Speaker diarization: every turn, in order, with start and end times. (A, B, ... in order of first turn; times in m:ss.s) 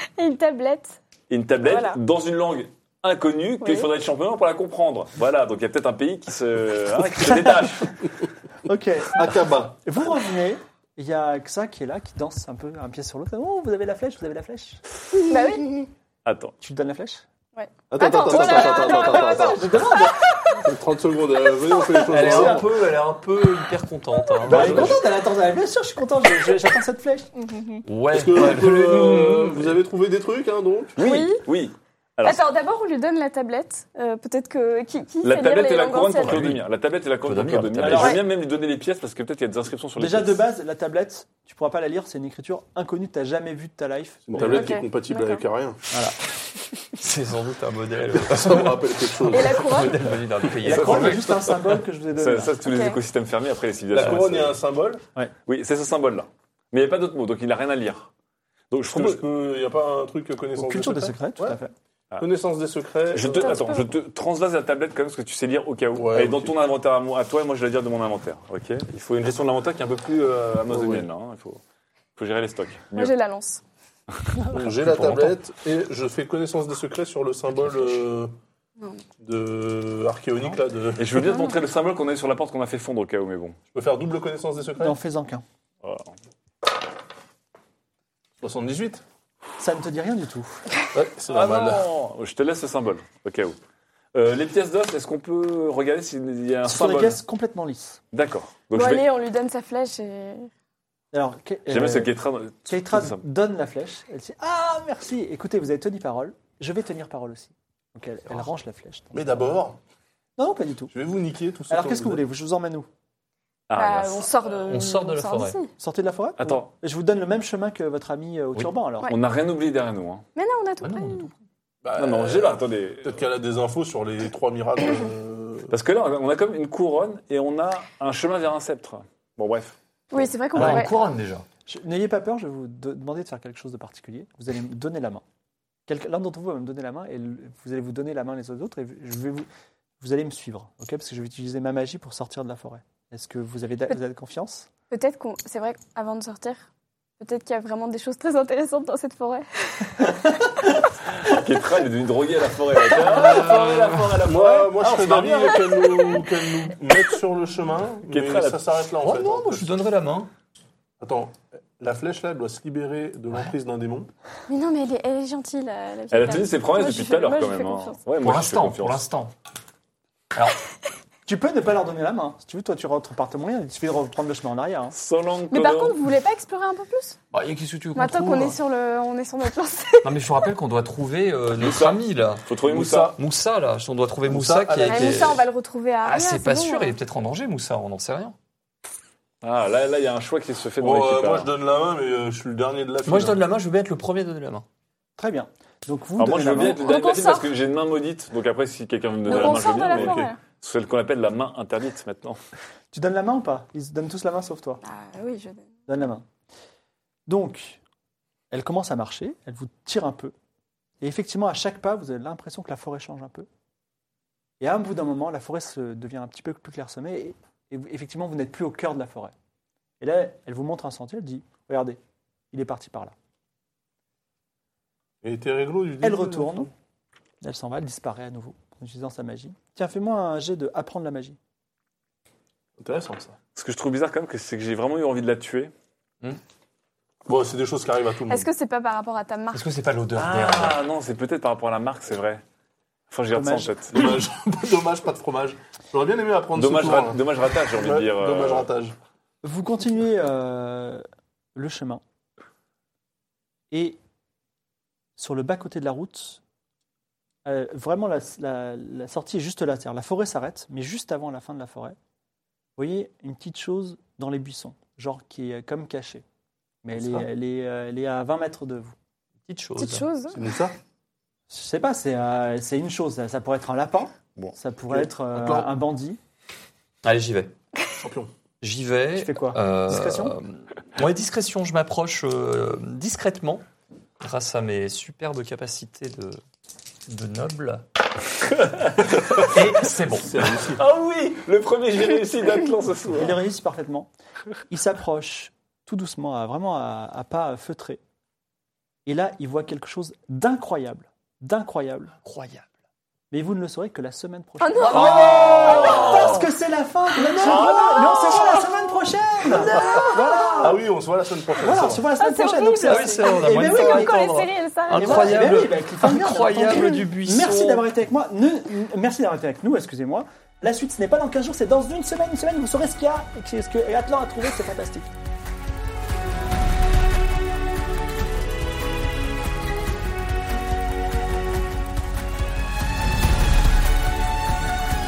0:00.2-0:01.0 A
0:01.3-0:08.0 B
0:01.6-0:02.0 A
0:03.6-0:03.9 A
0:07.1-0:07.9 C
0:08.6-0:14.8 C
0:09.2-0:09.8 D
0:15.3-0:15.8 A
0:16.2-0:16.6 B
0:16.6-0:17.2 C
0:17.6-0:20.2 A
0:17.9-0:19.8 D
0:18.3-0:20.5 C
0:20.6-0:22.7 D
0:21.8-0:22.6 C
0:22.1-0:25.0 E
0:24.5-0:27.3 C
0:24.5-0:25.0 D
0:27.4-0:27.8 A
0:27.8-0:29.8 E
0:28.1-0:31.0 D
0:31.0-0:31.4 A
0:31.0-0:32.5 B
0:32.2-0:36.4 A
0:35.2-0:40.4 B
0:36.2-0:36.6 E
0:37.2-0:38.2 E
0:37.8-0:38.2 A
0:40.0-0:44.8 C
0:44.3-0:45.8 D
0:44.4-0:45.5 A
0:45.9-0:46.2 C
0:47.0-0:51.5 E
0:48.2-0:49.7 D
0:49.3-0:50.1 A
0:50.6-0:52.6 C
0:50.7-0:51.5 B
0:52.1-0:54.6 B
0:52.6-0:53.0 A
0:53.9-0:55.0 D
0:55.5-0:58.1 B
0:58.7-0:59.2 B
0:58.9-1:01.6 D
1:00.6-1:01.7 C
1:02.2-1:03.6 D
1:03.1-1:11.6 B
1:03.4-1:03.9 A
1:05.9-1:06.5 D
1:10.7-1:11.1 D
1:12.2-1:13.1 B
1:13.0-1:13.6 A
1:14.5-1:18.4 D
1:14.5-1:15.4 E
1:18.8-1:19.0 A
1:19.2-1:21.3 D
1:21.0-1:23.6 B
1:23.7-1:25.0 D
1:24.8-1:25.4 C
1:25.8-1:26.1 B
1:28.4-1:29.0 D
1:29.6-1:30.6 C
1:30.9-1:31.9 D
1:31.3-1:33.6 B
1:34.1-1:37.2 B
1:36.6-1:38.0 C
1:38.1-1:39.0 B
1:38.7-1:40.5 A
1:41.1-1:42.1 C
1:41.7-1:43.2 B
1:42.7-1:49.4 C
1:49.1-1:49.8 D
1:50.4-1:50.9 C
1:50.9-1:52.2 D
1:51.7-1:52.9 C
1:53.7-1:54.4 B
1:53.8-1:55.7 A
1:54.6-1:55.6 E
1:55.8-1:59.1 C
1:56.4-1:56.7 B
1:59.1-2:00.2 B
2:00.4-2:01.3 A
2:00.8-2:01.3 E
2:01.8-2:05.7 D
2:02.0-2:03.2 B
2:05.7-2:10.3 B
2:10.1-2:10.9 A
2:10.5-2:11.5 E
2:11.7-2:15.2 C
2:15.9-2:19.5 C
2:20.0-2:24.7 C
2:24.9-2:26.6 A
2:27.2-2:30.1 A
2:31.2-2:36.2 B
2:32.9-2:39.7 D
2:33.5-2:34.0 E
2:35.6-2:36.3 A
2:38.1-2:38.6 B
2:39.0-2:40.3 E
2:41.0-2:44.1 D
2:44.5-2:48.0 A
2:46.1-2:49.0 B
2:48.2-2:49.3 E
2:51.3-2:54.9 C
2:54.9-2:56.0 B
2:55.5-2:57.2 A
2:57.3-2:58.6 E
2:58.0-3:00.1 A
3:00.0-3:05.4 E
3:01.6-3:03.2 B
3:02.7-3:03.2 D
3:04.3-3:05.4 D
3:04.9-3:07.0 A
3:06.0-3:08.4 E
3:09.4-3:11.5 B
3:10.8-3:13.4 D
3:13.0-3:14.7 E
3:15.2-3:16.9 C
3:16.2-3:22.4 B
3:16.8-3:17.5 A
3:19.2-3:20.4 A
3:19.3-3:20.3 D
3:22.9-3:24.8 C
3:24.8-3:25.8 A
3:25.9-3:26.3 C
3:27.3-3:27.8 C
3:28.5-3:30.3 C
3:31.0-3:33.5 C
3:34.6-3:39.3 C
3:40.0-3:42.0 C
3:42.5-3:43.1 C
3:45.2-3:46.7 D
3:46.0-3:46.7 C
3:47.4-3:51.4 C
3:52.8-3:53.4 D
3:53.6-3:55.7 B
3:57.3-3:58.5 D
3:58.3-3:59.7 A
3:59.5-4:00.8 E
4:00.2-4:02.4 B
4:03.1-4:04.0 B
4:03.3-4:03.7 C
4:03.9-4:09.0 D
4:06.6-4:08.7 B
4:09.4-4:11.0 C
4:11.6-4:12.0 C
4:13.7-4:14.0 C
4:15.2-4:16.4 C
4:17.4-4:22.0 C
4:22.8-4:26.2 C
4:26.8-4:29.0 C
4:27.0-4:27.3 E
4:29.5-4:30.1 E
4:29.8-4:30.4 A
4:30.3-4:30.8 D
4:31.5-4:36.2 C
4:34.9-4:35.7 D
4:37.0-4:37.5 E
4:38.0-4:38.3 D
4:38.6-4:43.7 E
4:39.2-4:40.4 C
4:44.2-4:46.4 E
4:47.1-4:47.8 E
4:48.4-4:49.5 B
4:49.4-4:50.5 E
4:50.2-4:50.8 D
4:50.8-4:53.4 B
4:53.1-4:54.1 C
4:54.7-4:58.0 C
4:59.1-5:02.1 C
5:02.2-5:02.7 E
5:03.3-5:10.9 C
5:04.6-5:06.5 A
5:04.8-5:06.5 E
5:07.2-5:08.7 A
5:07.4-5:08.6 B
5:09.5-5:10.7 A
5:10.6-5:12.1 D
5:11.6-5:14.2 C
5:12.2-5:15.4 A
5:12.8-5:17.9 E
5:15.0-5:25.1 C